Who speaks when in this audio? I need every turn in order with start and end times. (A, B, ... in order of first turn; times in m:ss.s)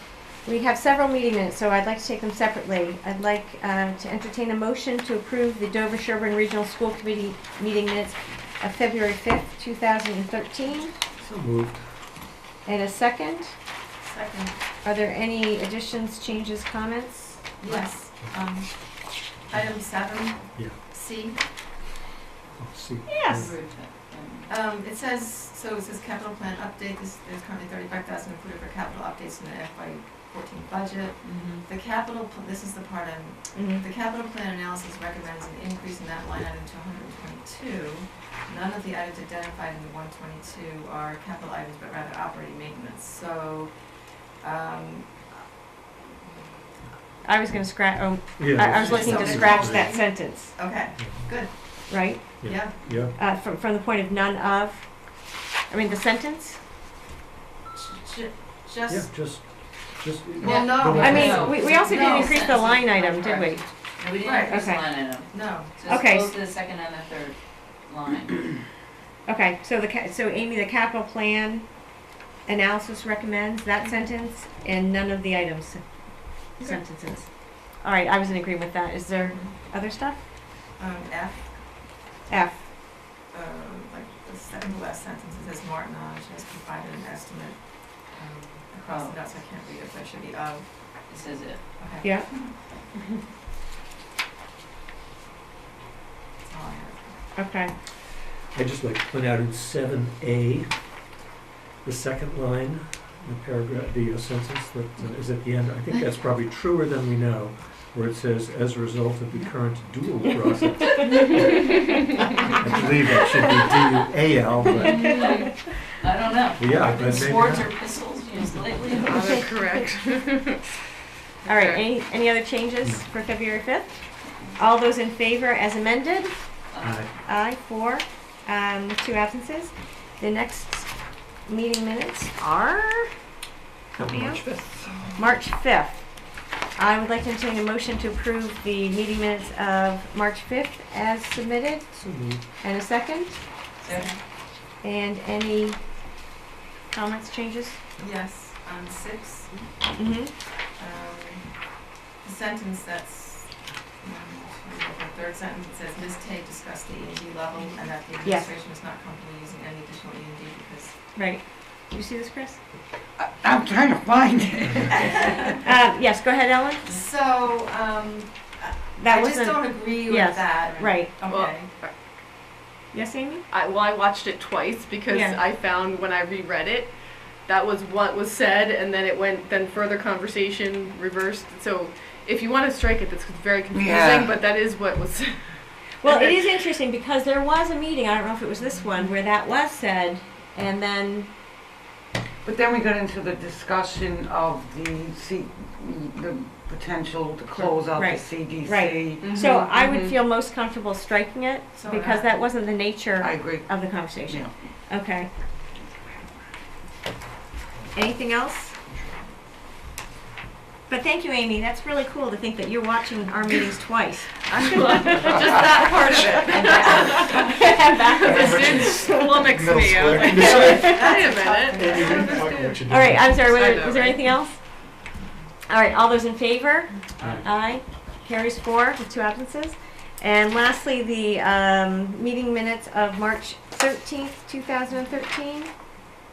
0:00.4-0:10.9 A
0:11.2-0:11.8 B
0:12.6-0:13.5 A
0:14.0-0:14.6 C
0:14.8-0:17.4 A
0:17.6-0:21.4 C
0:22.6-0:23.6 B
0:23.1-0:23.5 A
0:23.3-0:24.5 D
0:24.5-0:45.4 C
0:31.2-0:31.6 D
0:33.5-0:33.8 A
0:47.2-0:50.5 A
0:48.4-0:50.1 B
0:48.7-0:53.0 C
0:51.0-0:51.4 B
0:51.9-0:56.6 A
0:52.4-0:53.1 B
0:57.7-0:59.1 C
0:58.9-1:01.8 B
1:00.4-1:02.7 C
1:00.4-1:08.5 D
1:01.0-1:03.6 A
1:04.2-1:04.7 C
1:04.5-1:04.9 A
1:05.3-1:05.8 C
1:05.9-1:06.4 A
1:09.2-1:20.2 A
1:20.8-1:21.7 C
1:22.3-1:22.7 A
1:23.3-1:30.7 C
1:28.8-1:29.2 D
1:31.1-1:31.6 D
1:31.8-1:32.3 C
1:32.0-1:32.3 A
1:36.4-1:37.3 C
1:37.4-1:37.7 A
1:38.5-1:40.8 B
1:41.8-1:55.2 B
1:54.7-1:55.5 A
1:54.8-1:55.5 E
1:55.1-1:59.4 D
1:56.6-1:58.0 B
1:59.0-2:00.6 E
2:01.4-2:01.8 E
2:01.4-2:06.5 A
2:06.7-2:07.0 D
2:06.8-2:07.1 B
2:07.2-2:13.1 A
2:14.0-2:14.4 A
2:14.0-2:15.0 F
2:15.2-2:22.0 A
2:22.0-2:22.4 B
2:22.6-2:23.4 A
2:23.8-2:24.1 D
2:23.8-2:24.2 C
2:24.8-2:25.8 A
2:26.9-2:27.8 A
2:28.0-2:29.5 C
2:29.9-2:30.3 A
2:30.7-2:31.7 C
2:32.2-2:41.0 C
2:38.2-2:38.5 A
2:41.2-2:42.6 A
2:43.2-2:45.6 F
2:44.9-2:45.5 C
2:45.6-2:47.0 A
2:46.8-2:51.7 C
2:49.0-2:51.1 A
2:51.2-2:51.9 E
2:52.9-2:53.4 A
2:53.5-2:56.9 E
2:55.1-2:55.4 A
2:57.4-3:06.4 E
3:03.7-3:04.4 F
3:06.0-3:11.3 A
3:12.4-3:19.4 F
3:17.5-3:25.3 A
3:19.2-3:20.1 E
3:21.7-3:22.3 C
3:23.2-3:24.5 F
3:27.9-3:28.8 A
3:30.9-3:39.6 A
3:34.5-3:42.8 E
3:35.4-3:37.0 F
3:38.3-3:40.9 B
3:40.3-3:42.4 C
3:40.5-3:41.2 A
3:41.8-3:43.4 B
3:42.9-3:44.9 A
3:43.4-3:44.2 E
3:45.7-3:55.9 A
3:47.2-3:47.4 B